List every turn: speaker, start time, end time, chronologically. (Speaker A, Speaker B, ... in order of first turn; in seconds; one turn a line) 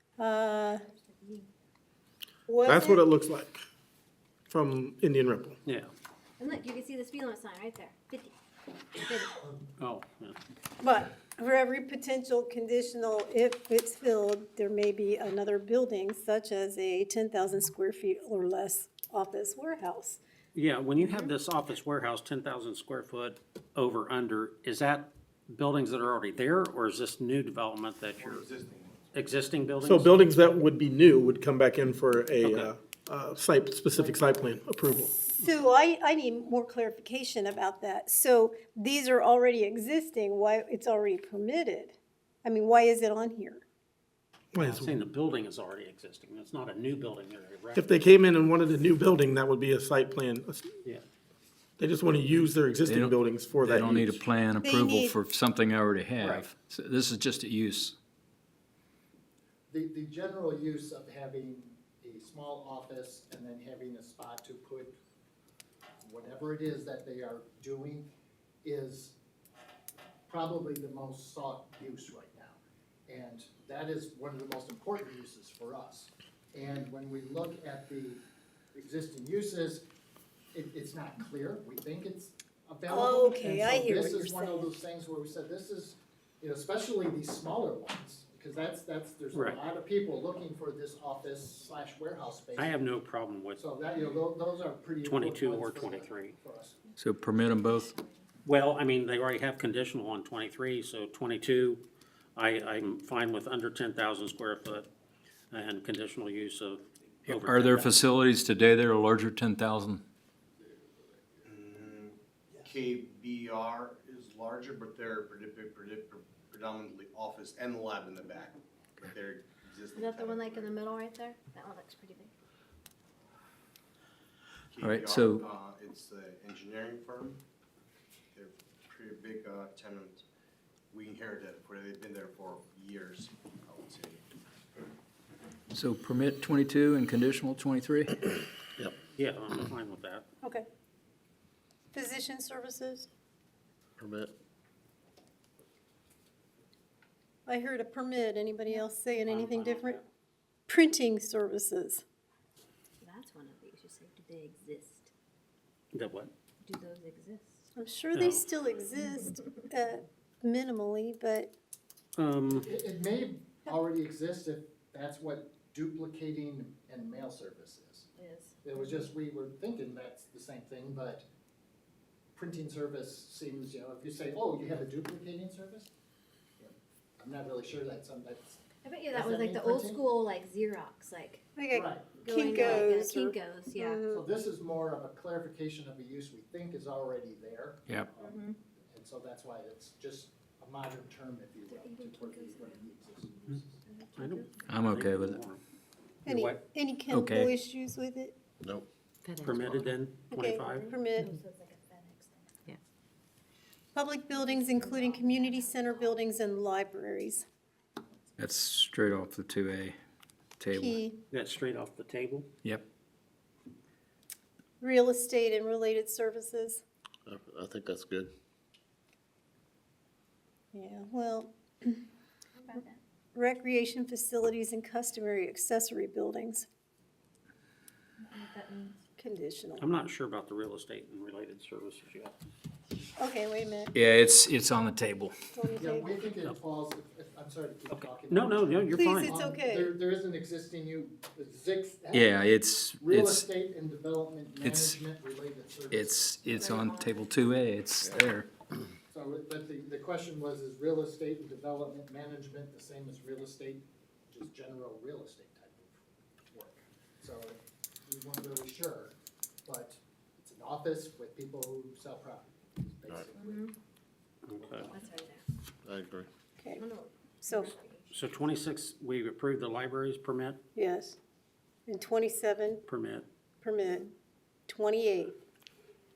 Speaker A: 0.2-0.8
Speaker B: 0.9-1.5
Speaker A: 2.5-3.0
Speaker C: 2.6-3.6
Speaker C: 4.5-5.6
Speaker D: 5.7-5.9
Speaker B: 6.4-8.3
Speaker B: 8.9-9.4
Speaker D: 9.8-10.4
Speaker A: 10.8-20.2
Speaker D: 20.5-28.5
Speaker E: 28.2-29.1
Speaker D: 29.1-30.3
Speaker C: 29.8-35.1
Speaker D: 32.4-32.7
Speaker F: 34.0-34.4
Speaker A: 35.2-43.6
Speaker C: 44.5-45.0
Speaker D: 44.5-48.0
Speaker C: 47.7-50.7
Speaker C: 51.8-54.2
Speaker G: 52.8-57.9
Speaker A: 54.6-55.2
Speaker D: 56.2-56.4
Speaker F: 59.7-65.0
Speaker F: 66.0-68.1
Speaker F: 68.6-69.1
Speaker F: 70.3-78.2
Speaker F: 78.7-79.8
Speaker F: 80.5-92.8
Speaker A: 82.9-84.7
Speaker D: 89.3-89.6
Speaker D: 92.5-93.6
Speaker F: 93.6-96.8
Speaker D: 95.0-96.3
Speaker G: 97.0-97.9
Speaker D: 98.4-101.8
Speaker D: 102.3-104.9
Speaker D: 105.5-108.0
Speaker G: 107.3-110.0
Speaker E: 111.5-120.8
Speaker B: 119.9-122.3
Speaker E: 124.7-127.4
Speaker G: 124.8-125.5
Speaker E: 128.3-130.2
Speaker E: 130.9-134.3
Speaker G: 135.7-138.2
Speaker D: 139.2-140.2
Speaker A: 141.9-143.1
Speaker H: 144.0-144.3
Speaker A: 147.4-150.0
Speaker D: 149.2-150.1
Speaker A: 150.7-152.0
Speaker B: 153.0-155.1
Speaker D: 155.9-156.3
Speaker B: 156.6-157.7
Speaker A: 157.7-161.5
Speaker D: 158.1-158.4
Speaker D: 162.2-162.7
Speaker F: 162.5-168.1
Speaker B: 168.2-168.6
Speaker F: 168.6-171.2
Speaker F: 172.3-175.9
Speaker F: 176.6-180.0
Speaker B: 178.8-181.4
Speaker A: 181.6-184.2
Speaker F: 181.7-182.9
Speaker B: 182.2-184.0
Speaker F: 184.0-193.6
Speaker B: 188.2-188.6
Speaker B: 191.7-194.5
Speaker D: 194.2-195.6
Speaker G: 194.7-195.4
Speaker A: 196.2-198.3
Speaker D: 196.2-196.6
Speaker G: 197.1-197.5
Speaker H: 198.6-198.9
Speaker D: 199.4-200.9
Speaker H: 199.6-199.9
Speaker A: 200.3-201.3
Speaker B: 200.6-202.8
Speaker A: 203.9-207.4
Speaker B: 204.3-206.2
Speaker G: 208.4-209.9
Speaker G: 210.6-211.0
Speaker A: 210.7-211.2
Speaker D: 211.3-212.5
Speaker A: 214.8-216.8
Speaker H: 217.3-218.3
Speaker A: 220.7-222.0
Speaker B: 222.6-223.0
Speaker A: 223.3-226.7
Speaker B: 228.2-229.0
Speaker A: 229.2-229.9
Speaker D: 229.8-232.3
Speaker A: 233.2-233.9
Speaker G: 233.9-235.3
Speaker A: 235.5-236.2
Speaker F: 235.8-246.5
Speaker D: 237.9-239.4
Speaker A: 238.9-239.9
Speaker G: 242.1-243.4
Speaker G: 244.6-245.0
Speaker G: 245.9-248.5
Speaker B: 246.5-247.2
Speaker F: 249.1-259.1
Speaker F: 259.6-263.7
Speaker B: 263.4-263.7
Speaker D: 264.5-264.9
Speaker B: 264.9-265.4
Speaker H: 265.8-266.3
Speaker A: 266.6-266.8
Speaker B: 266.8-268.4
Speaker A: 267.4-267.7
Speaker D: 268.1-270.6
Speaker A: 270.8-271.2
Speaker A: 271.9-272.8
Speaker D: 272.9-273.2
Speaker A: 273.6-274.1
Speaker A: 274.7-275.4